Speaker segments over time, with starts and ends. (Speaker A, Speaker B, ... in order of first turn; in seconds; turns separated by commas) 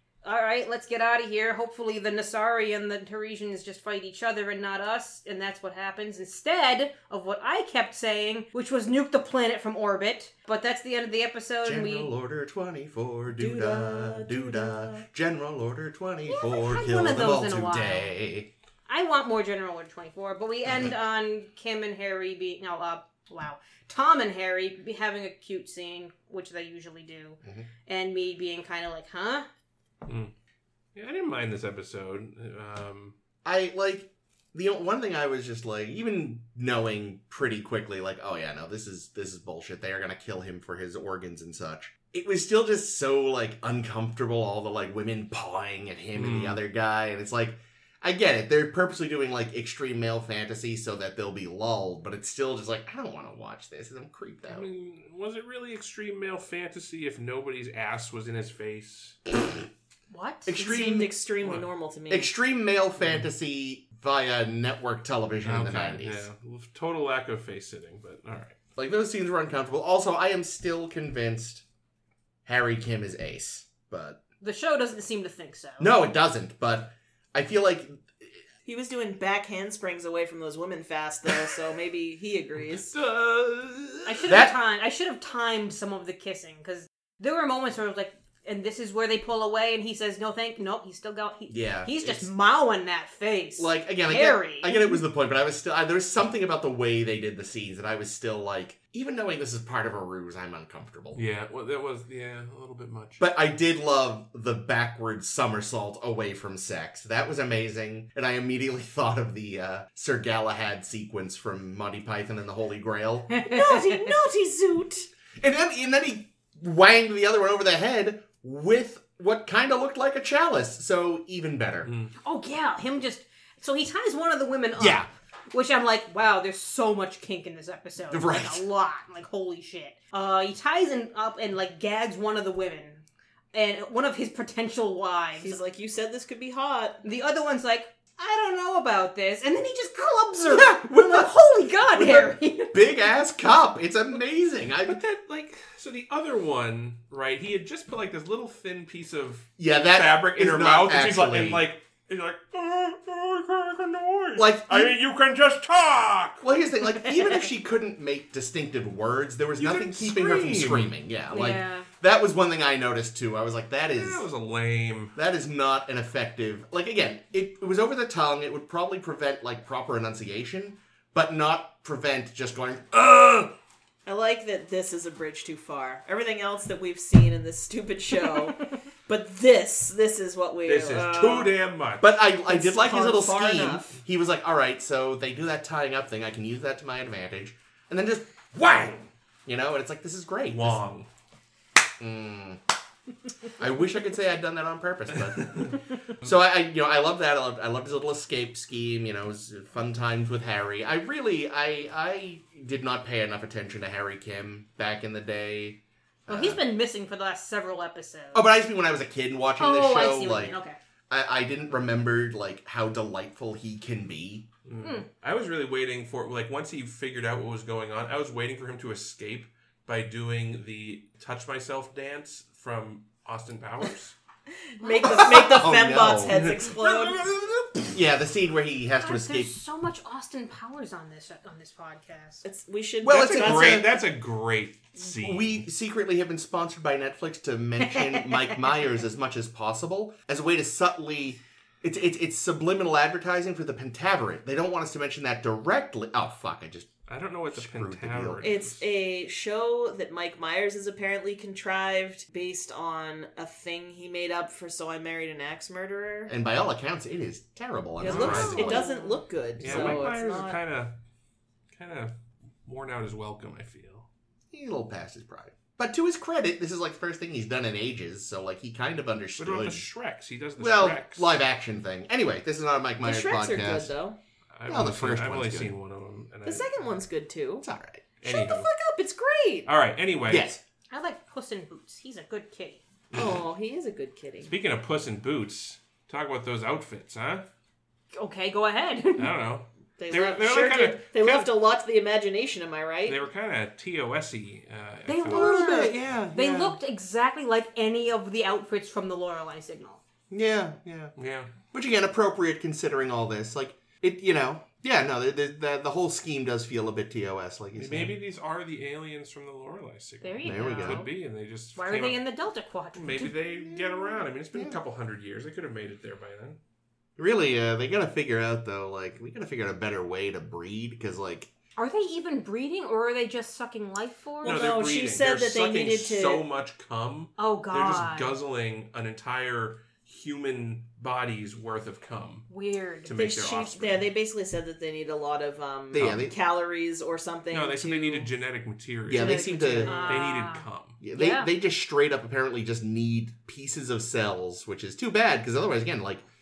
Speaker A: 0.2-12.1, Speaker B: 11.6-18.5, Speaker C: 13.4-15.0, Speaker A: 16.3-18.1, Speaker A: 18.9-29.5, Speaker B: 27.4-27.7, Speaker D: 30.1-30.3, Speaker D: 30.9-33.1, Speaker B: 33.4-54.7, Speaker D: 46.1-46.6, Speaker D: 54.5-59.2, Speaker A: 60.1-61.0, Speaker B: 60.5-61.1, Speaker C: 60.6-62.3, Speaker D: 61.4-61.7, Speaker B: 62.1-66.3, Speaker D: 63.0-63.3, Speaker D: 65.4-68.6, Speaker B: 68.8-71.6, Speaker B: 72.4-74.2, Speaker A: 74.4-75.9, Speaker B: 75.8-78.4, Speaker C: 78.7-83.0, Speaker D: 82.6-84.3, Speaker A: 84.0-95.0, Speaker B: 84.2-84.5, Speaker B: 91.5-92.3, Speaker B: 93.6-101.2, Speaker D: 101.1-103.2, Speaker B: 103.2-113.3, Speaker A: 113.3-114.1, Speaker C: 113.4-115.1, Speaker B: 115.4-121.9, Speaker D: 121.8-122.1, Speaker A: 122.2-135.6, Speaker B: 124.8-125.1, Speaker B: 128.1-128.6, Speaker C: 135.4-137.0, Speaker A: 137.0-142.9, Speaker B: 140.4-141.3, Speaker B: 141.9-145.0, Speaker D: 144.8-156.4, Speaker B: 149.6-151.7, Speaker B: 154.3-154.9, Speaker B: 156.4-164.2, Speaker A: 156.9-157.3, Speaker D: 159.5-160.9, Speaker A: 161.3-161.9, Speaker D: 163.9-165.2, Speaker B: 165.1-173.5, Speaker C: 174.0-181.5, Speaker D: 180.7-182.2, Speaker B: 182.0-190.8, Speaker C: 182.5-184.0, Speaker D: 190.5-191.1, Speaker B: 192.0-192.6, Speaker B: 193.6-206.6, Speaker D: 195.3-196.3, Speaker A: 206.3-208.5, Speaker B: 208.3-210.6, Speaker A: 209.6-210.8, Speaker B: 211.1-214.5, Speaker D: 214.6-224.2, Speaker A: 214.8-215.1, Speaker C: 224.8-227.2, Speaker A: 224.8-225.2, Speaker B: 225.0-226.4, Speaker D: 226.3-227.9, Speaker B: 227.9-229.5, Speaker A: 229.0-232.4, Speaker C: 232.4-234.0, Speaker B: 233.0-233.9, Speaker D: 233.1-235.6, Speaker B: 235.2-246.9, Speaker A: 237.8-238.6, Speaker D: 247.1-248.8, Speaker B: 247.5-248.4, Speaker C: 248.4-256.3, Speaker B: 256.3-258.9, Speaker C: 258.0-260.6, Speaker D: 258.0-258.8, Speaker A: 258.1-259.9, Speaker D: 259.6-260.9, Speaker B: 259.6-259.9, Speaker D: 261.7-264.1, Speaker B: 264.5-269.8, Speaker D: 269.4-271.4, Speaker B: 270.6-273.9, Speaker C: 273.0-274.2, Speaker D: 274.5-276.9, Speaker B: 274.7-275.7, Speaker C: 276.4-277.6, Speaker B: 277.6-278.0, Speaker D: 278.2-278.7, Speaker C: 278.2-279.7, Speaker D: 279.6-280.5, Speaker B: 280.3-280.6, Speaker A: 280.9-282.8, Speaker C: 283.1-284.5, Speaker D: 284.4-287.4, Speaker A: 288.1-289.3, Speaker D: 289.2-291.5, Speaker C: 290.0-293.2, Speaker D: 293.1-295.6, Speaker A: 295.1-300.0, Speaker B: 295.3-296.8, Speaker C: 295.5-295.9, Speaker B: 300.3-301.1, Speaker D: 301.2-301.5, Speaker B: 301.7-308.1, Speaker D: 307.8-312.2, Speaker A: 310.2-311.1, Speaker B: 310.4-311.0, Speaker A: 311.7-313.3, Speaker D: 312.9-316.6, Speaker B: 313.4-314.8, Speaker B: 317.2-321.5, Speaker A: 321.8-324.7, Speaker C: 324.4-326.4, Speaker D: 324.4-332.5, Speaker A: 327.4-328.4, Speaker A: 332.5-333.1, Speaker D: 333.0-334.0, Speaker C: 333.1-338.3, Speaker B: 335.9-336.3, Speaker D: 337.5-341.0, Speaker B: 339.1-340.2, Speaker C: 339.1-340.2, Speaker A: 339.8-341.5, Speaker B: 341.0-346.2